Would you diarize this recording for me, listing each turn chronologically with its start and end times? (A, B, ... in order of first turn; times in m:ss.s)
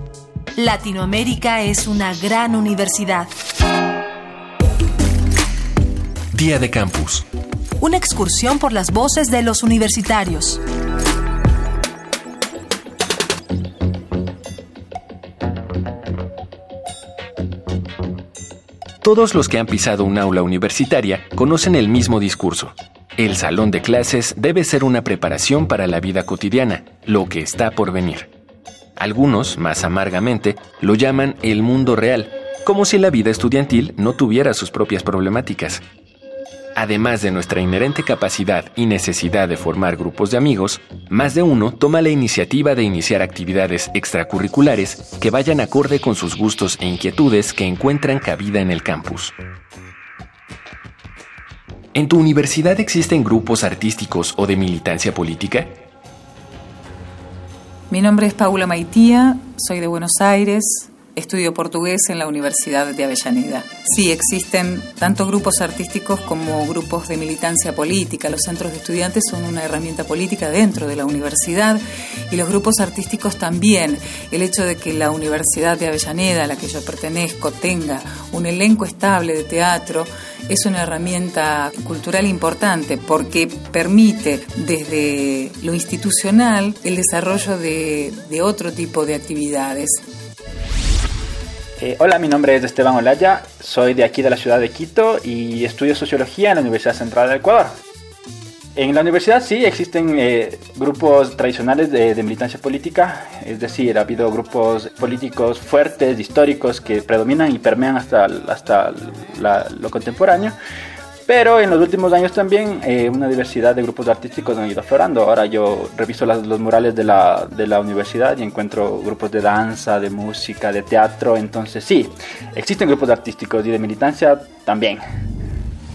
0:00.5-0:03.3 A
0:06.3-0:07.2 B
0:07.8-0:10.6 A
0:19.0-0:28.3 B
0:29.0-0:35.8 B
0:36.8-0:49.3 B
0:51.9-0:55.8 B
0:57.9-1:30.0 C
1:31.8-1:37.7 D
1:38.8-1:50.6 D
1:51.3-2:05.0 D